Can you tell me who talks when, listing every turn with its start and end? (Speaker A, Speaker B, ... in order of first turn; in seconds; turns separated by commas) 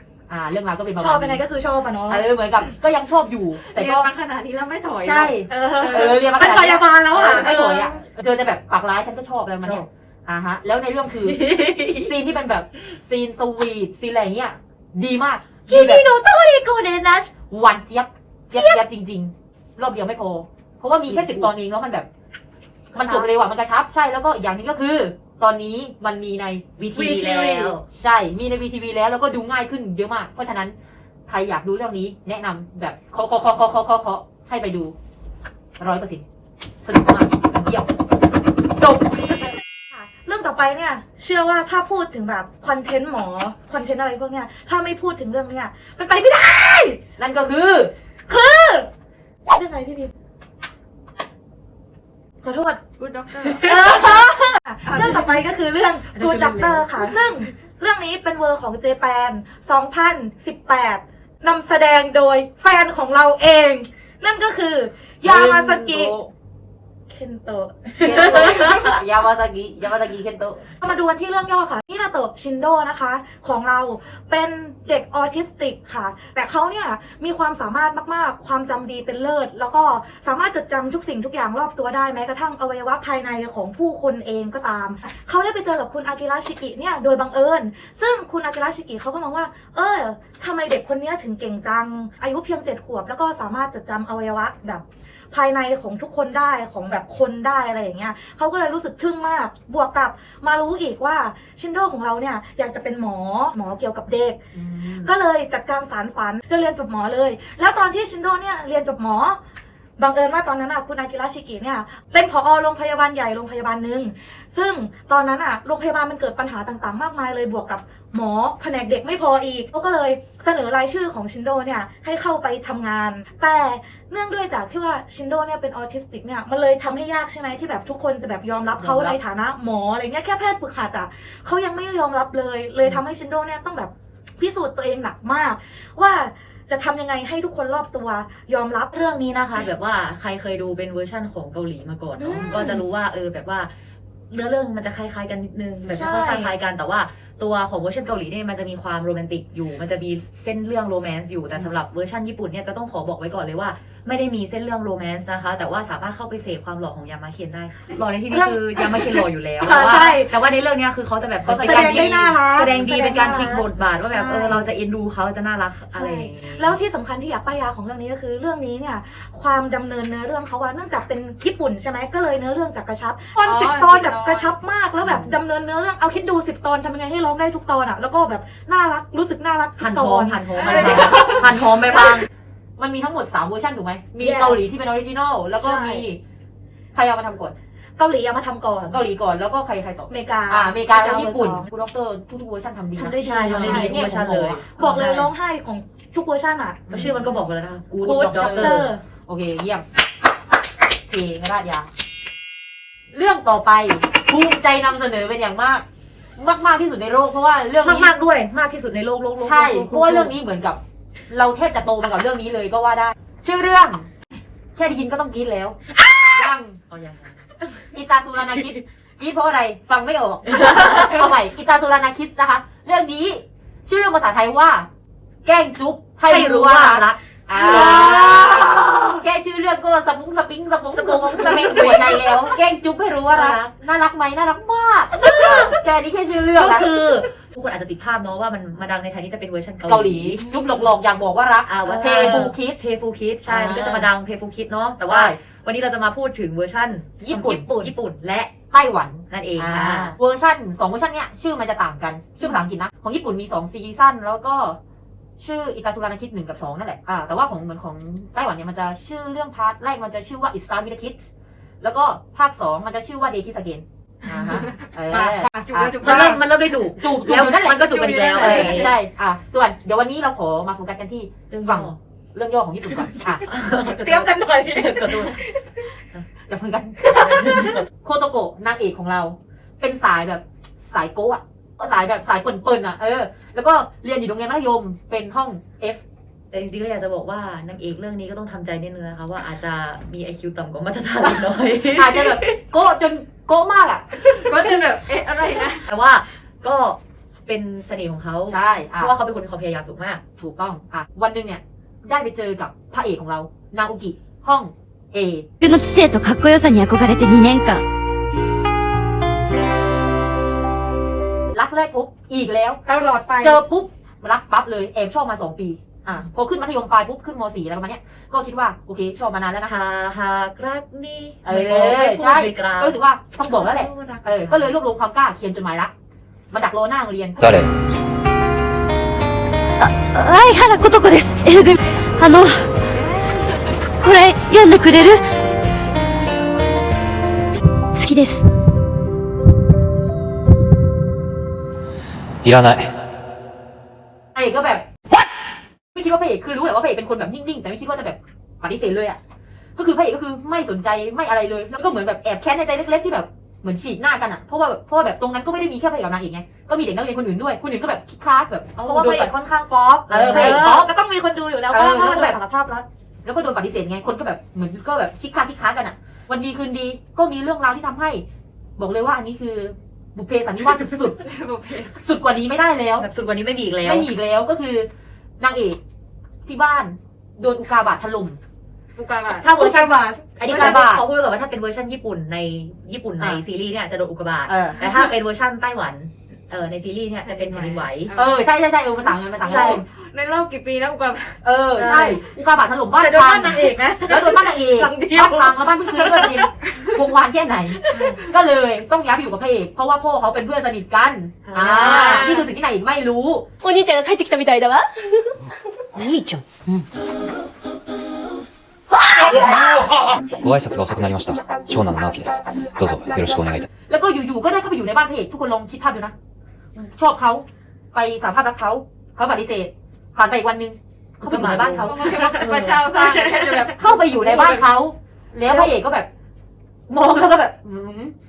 Speaker A: 0.3-1.4, Speaker B: 1.0-2.3, Speaker A: 2.1-4.1, Speaker C: 3.7-6.2, Speaker A: 5.0-16.1, Speaker B: 5.5-8.0, Speaker C: 7.2-7.5, Speaker D: 11.2-12.1, Speaker D: 15.7-17.3, Speaker A: 17.5-22.1, Speaker D: 18.5-18.8, Speaker D: 21.1-21.5, Speaker D: 22.9-23.3, Speaker A: 22.9-27.2, Speaker D: 26.8-27.8, Speaker B: 26.9-27.7, Speaker A: 27.8-30.7, Speaker A: 31.3-34.9, Speaker A: 35.8-36.2, Speaker A: 36.8-37.9, Speaker A: 38.8-39.0, Speaker B: 39.9-47.0, Speaker A: 47.2-47.9, Speaker B: 48.3-48.9, Speaker B: 49.5-50.1, Speaker B: 52.4-52.8, Speaker C: 53.0-54.2, Speaker B: 53.6-66.1, Speaker C: 54.8-55.3, Speaker D: 56.1-57.0, Speaker A: 65.2-66.3, Speaker B: 67.1-68.9, Speaker A: 68.0-70.7, Speaker B: 70.8-104.4, Speaker A: 104.5-105.1, Speaker B: 105.0-109.4, Speaker B: 110.0-138.9, Speaker A: 128.8-129.2, Speaker D: 138.9-143.7, Speaker B: 142.2-142.8, Speaker D: 144.3-166.7, Speaker B: 145.9-146.5, Speaker B: 158.3-160.3, Speaker A: 161.4-162.4, Speaker B: 161.6-164.6, Speaker B: 165.9-181.4, Speaker C: 173.4-174.5, Speaker D: 179.8-182.3, Speaker C: 180.6-181.4, Speaker A: 182.8-186.2, Speaker B: 184.2-184.6, Speaker B: 185.6-186.0, Speaker A: 186.9-187.5, Speaker B: 188.0-189.0, Speaker A: 188.9-195.2, Speaker B: 190.1-191.7, Speaker B: 192.9-194.1, Speaker D: 193.2-195.2, Speaker B: 194.8-197.1, Speaker A: 196.9-197.2, Speaker D: 196.9-198.9, Speaker A: 198.0-199.8, Speaker B: 198.1-199.0, Speaker A: 201.1-201.9, Speaker A: 203.1-205.8, Speaker A: 206.4-208.1, Speaker D: 207.8-210.3, Speaker A: 209.4-210.8, Speaker A: 211.3-214.1, Speaker A: 214.8-215.8, Speaker A: 216.3-216.8, Speaker D: 216.9-217.4, Speaker A: 217.9-224.9, Speaker A: 225.4-237.0, Speaker D: 226.3-228.9, Speaker D: 230.9-232.4, Speaker D: 233.3-233.7, Speaker D: 236.6-240.7, Speaker A: 239.9-242.8, Speaker D: 241.6-248.5, Speaker A: 243.4-244.1, Speaker A: 245.0-245.4, Speaker A: 247.2-247.9, Speaker A: 248.7-254.8, Speaker D: 249.3-250.1, Speaker A: 255.4-261.3, Speaker A: 261.8-266.4, Speaker B: 265.1-266.4, Speaker C: 265.7-266.3, Speaker D: 266.0-268.9, Speaker A: 267.0-273.5, Speaker C: 267.9-268.9, Speaker D: 271.5-272.0, Speaker D: 273.5-275.3, Speaker B: 273.7-275.4, Speaker A: 276.5-286.0, Speaker D: 277.1-277.7, Speaker B: 277.4-277.8, Speaker D: 286.5-292.3, Speaker A: 291.9-294.1, Speaker C: 294.3-295.8, Speaker D: 295.9-300.2, Speaker A: 298.5-299.1, Speaker A: 300.4-305.4, Speaker E: 305.6-307.8, Speaker A: 311.5-312.8, Speaker B: 312.9-313.6, Speaker A: 313.4-319.7, Speaker D: 319.6-324.7, Speaker A: 321.4-325.9, Speaker A: 326.5-327.4, Speaker F: 327.4-327.7, Speaker E: 329.8-332.7, Speaker E: 334.0-335.2, Speaker E: 337.9-338.4, Speaker F: 342.4-342.9, Speaker A: 344.3-344.9, Speaker A: 345.9-349.2, Speaker A: 349.8-359.4, Speaker B: 358.8-362.9, Speaker A: 360.1-360.9, Speaker D: 360.1-360.8, Speaker A: 361.7-362.4, Speaker A: 363.2-368.2, Speaker A: 368.8-371.2, Speaker C: 371.2-371.9, Speaker A: 372.0-373.1, Speaker D: 373.0-374.1, Speaker A: 373.8-374.9, Speaker A: 375.4-375.8, Speaker A: 376.4-378.4, Speaker C: 378.9-379.5, Speaker D: 379.4-388.1, Speaker B: 379.6-380.1, Speaker A: 380.5-381.0, Speaker A: 384.5-384.9, Speaker C: 387.3-388.4, Speaker A: 388.1-389.8, Speaker D: 389.4-389.8, Speaker C: 389.4-391.4, Speaker A: 391.4-403.5, Speaker B: 391.8-392.2, Speaker B: 392.9-396.5, Speaker B: 397.9-398.2, Speaker B: 401.5-402.3, Speaker C: 401.9-402.4, Speaker E: 403.6-404.8, Speaker F: 410.4-413.6, Speaker A: 413.9-416.1, Speaker A: 416.9-422.6, Speaker D: 421.2-422.8, Speaker C: 421.8-424.7, Speaker B: 423.0-423.7, Speaker A: 423.8-426.1, Speaker D: 425.4-425.7, Speaker A: 426.9-428.1